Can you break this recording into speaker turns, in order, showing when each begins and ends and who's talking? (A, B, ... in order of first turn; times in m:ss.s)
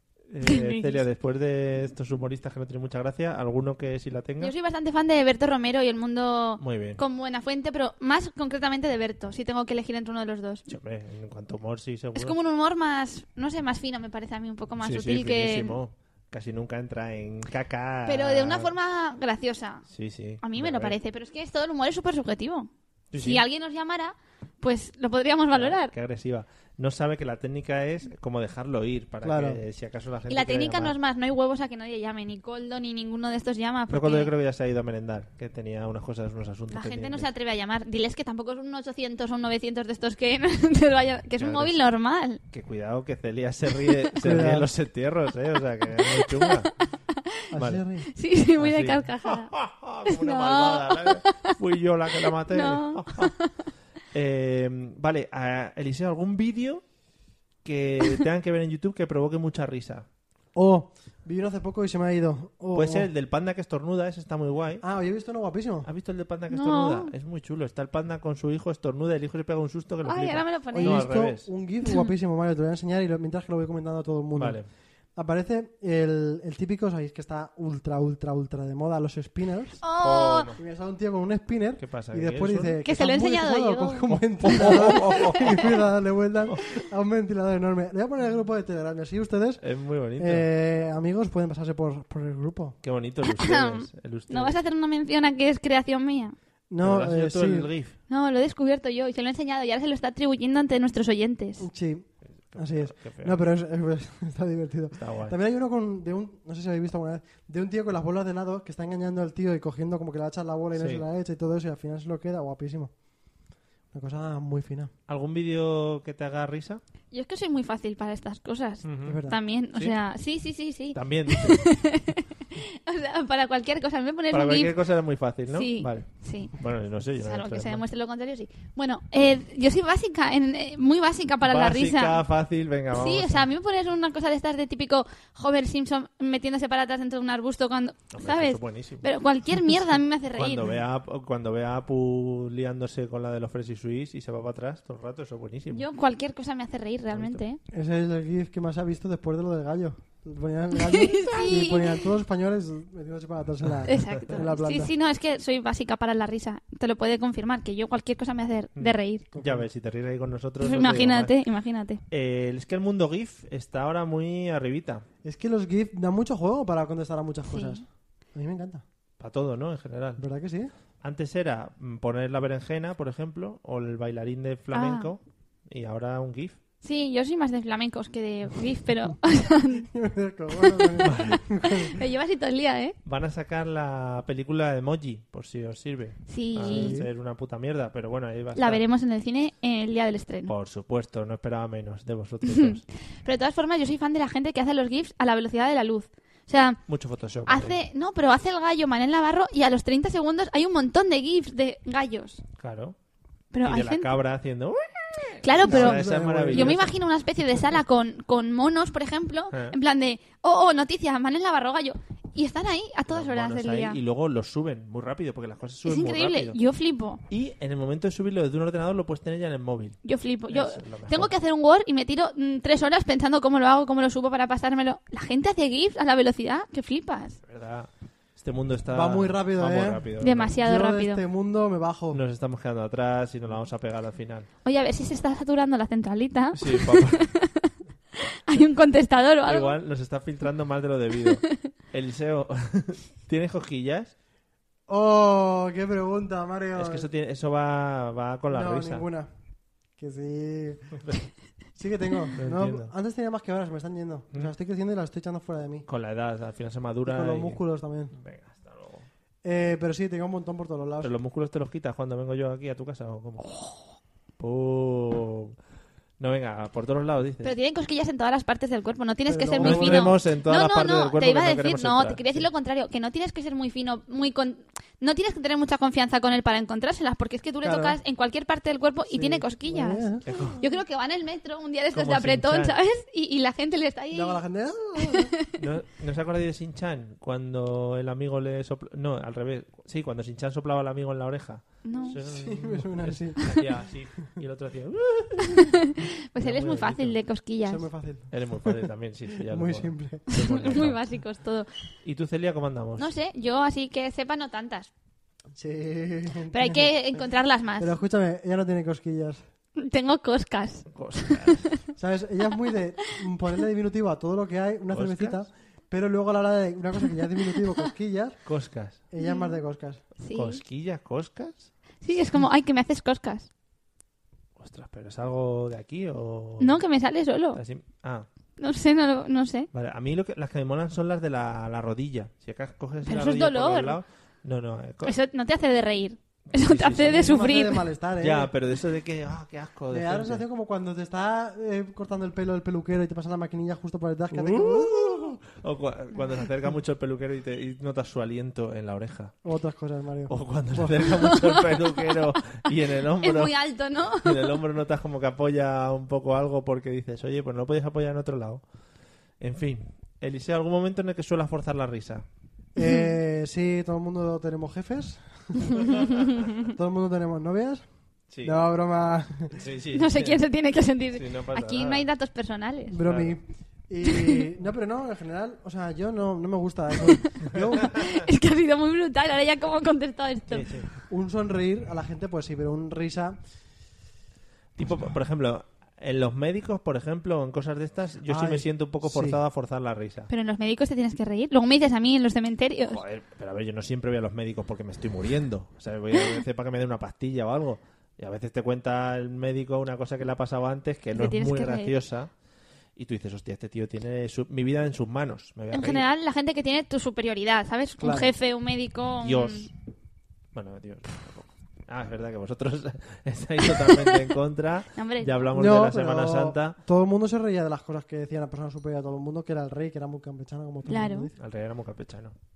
0:00.2-0:04.5 A
0:00.4-0:01.0 B
0:04.4-0:10.7 B
0:06.6-0:07.0 A
0:10.7-0:12.4 A
0:12.2-0:15.8 B
0:14.8-0:18.7 A
0:18.1-0:19.9 B
0:19.9-0:21.0 A
0:20.4-0:25.9 B
0:23.1-0:23.4 A
0:25.5-0:31.0 A
0:29.2-0:29.6 C
0:30.3-0:34.3 B
0:33.9-0:37.3 A
0:36.7-0:42.4 B
0:41.4-0:41.8 A
0:42.5-0:46.7 A
0:44.2-0:44.7 C
0:46.1-0:46.7 B
0:47.5-0:48.1 C
0:47.6-0:47.8 A
0:48.1-0:49.5 B
0:48.6-0:53.4 A
0:50.1-0:51.5 B
0:52.5-0:53.5 B
0:54.1-0:56.8 A
0:57.6-1:00.1 A
1:00.6-1:03.1 C
1:02.7-1:04.8 A
1:04.8-1:05.9 C
1:05.8-1:11.5 A
1:06.5-1:07.1 B
1:10.0-1:11.0 B
1:10.7-1:14.6 C
1:14.4-1:14.7 A
1:15.2-1:19.8 C
1:19.8-1:20.5 B
1:20.0-1:20.6 A
1:20.6-1:29.6 C
1:21.8-1:22.8 A
1:22.8-1:24.9 B
1:24.4-1:25.7 A
1:29.6-1:30.5 A
1:30.2-1:32.8 C
1:32.8-1:34.6 A
1:33.3-1:36.4 B
1:36.7-1:37.7 C
1:36.8-1:38.0 A
1:38.1-1:41.7 B
1:41.6-1:52.9 C
1:42.5-1:43.4 A
1:45.0-1:45.4 A
1:50.8-1:51.0 A
1:53.9-1:54.9 C
1:55.1-1:56.8 A
1:57.1-2:04.7 B
1:58.8-1:59.2 A
1:59.0-1:59.4 C
2:00.9-2:01.6 A
2:04.3-2:07.8 A
2:05.5-2:06.5 B
2:07.2-2:12.2 B
2:11.4-2:13.5 A
2:12.9-2:20.7 B
2:18.1-2:19.1 A
2:20.4-2:25.9 A
2:25.7-2:27.6 B
2:27.1-2:27.4 A
2:27.7-2:34.9 C
2:30.8-2:32.0 B
2:33.9-2:39.2 B
2:38.8-2:41.4 A
2:39.3-2:39.7 C
2:40.6-2:42.0 B
2:42.1-2:45.1 A
2:45.2-2:48.8 C
2:47.5-2:47.8 B
2:49.2-2:50.2 A
2:50.2-2:50.7 C
2:51.0-2:56.6 A
2:54.7-2:55.1 B
2:56.8-2:59.9 B
2:59.8-3:02.0 C
3:00.5-3:03.0 B
3:01.0-3:01.4 A
3:03.0-3:08.8 A
3:06.3-3:07.0 B
3:06.6-3:07.1 C
3:08.6-3:10.5 B
3:10.5-3:12.8 A
3:13.2-3:16.8 B
3:16.9-3:17.8 A
3:17.5-3:22.4 B
3:22.6-3:23.0 A
3:23.5-3:24.1 B
3:23.6-3:27.0 A
3:25.4-3:34.0 B
3:25.6-3:26.8 C
3:33.1-3:36.6 A
3:35.9-3:37.2 B
3:37.3-3:41.3 A
3:40.0-3:47.4 B
3:47.4-3:50.6 A
3:48.9-3:52.2 C
3:50.2-3:51.2 B
3:52.1-3:54.5 A
3:54.6-3:57.7 B
3:56.5-3:57.3 A
3:58.5-3:59.8 B
3:59.5-4:04.1 A
4:04.9-4:07.1 C
4:06.8-4:09.0 A
4:08.5-4:09.3 C
4:10.0-4:11.0 C
4:11.0-4:11.3 A
4:11.8-4:15.9 C
4:12.4-4:12.9 A
4:15.9-4:17.6 A
4:17.0-4:18.1 C
4:18.1-4:19.1 A
4:19.4-4:21.1 C
4:21.0-4:23.7 A
4:24.4-4:25.6 A
4:26.2-4:27.6 A
4:27.4-4:44.4 B
4:29.3-4:30.2 C
4:29.6-4:32.5 A
4:37.6-4:38.0 C
4:39.1-4:40.3 C
4:40.3-4:40.6 A
4:41.9-4:42.8 A
4:44.1-4:45.3 C
4:45.0-4:45.5 B
4:45.6-4:55.7 A
4:51.8-4:52.2 B
4:52.1-4:53.5 C
4:55.5-4:57.9 B
4:56.4-4:57.2 A
4:57.7-5:00.3 C
4:58.3-5:01.0 A
5:00.3-5:01.7 B
5:02.0-5:03.1 A
5:03.0-5:04.9 B
5:05.6-5:07.0 C
5:06.5-5:07.9 B
5:07.8-5:09.4 C
5:09.8-5:11.7 B
5:10.9-5:11.8 A
5:12.0-5:18.4 C
5:14.9-5:15.4 A
5:18.5-5:19.0 A
5:19.1-5:20.0 C
5:19.2-5:19.5 B
5:20.2-5:20.6 B
5:20.3-5:21.7 A
5:22.0-5:23.5 B
5:24.6-5:26.8 A
5:26.6-5:27.6 B
5:27.5-5:28.3 A
5:28.6-5:29.7 B
5:29.7-5:35.1 A
5:33.0-5:34.0 B
5:35.0-5:37.8 B
5:36.5-5:37.4 A
5:37.1-5:38.5 C
5:38.2-5:40.4 A
5:39.9-5:45.4 C
5:44.3-5:49.3 A
5:49.4-5:51.2 C
5:50.3-5:53.6 A
5:53.2-5:54.6 B
5:54.1-5:58.6 A
5:59.4-6:02.2 A
6:02.8-6:05.8 C
6:06.6-6:07.8 C
6:08.3-6:08.6 A
6:08.4-6:09.6 C
6:09.5-6:10.4 A
6:10.0-6:13.0 B
6:11.1-6:12.1 A
6:12.9-6:17.9 C
6:13.0-6:13.4 A
6:17.9-6:20.7 B
6:20.5-6:20.9 A
6:21.1-6:23.4 C
6:24.8-6:30.3 A
6:28.3-6:29.4 C
6:30.3-6:33.0 B
6:32.9-6:42.3 A
6:41.1-6:41.9 B
6:43.0-6:46.0 A
6:45.7-6:49.7 B
6:48.0-6:48.3 C
6:49.2-6:49.7 A
6:50.5-6:56.8 A
6:53.8-6:54.1 B
6:55.0-6:55.3 B
6:55.5-7:01.3 C
7:00.9-7:01.3 B
7:01.4-7:02.4 A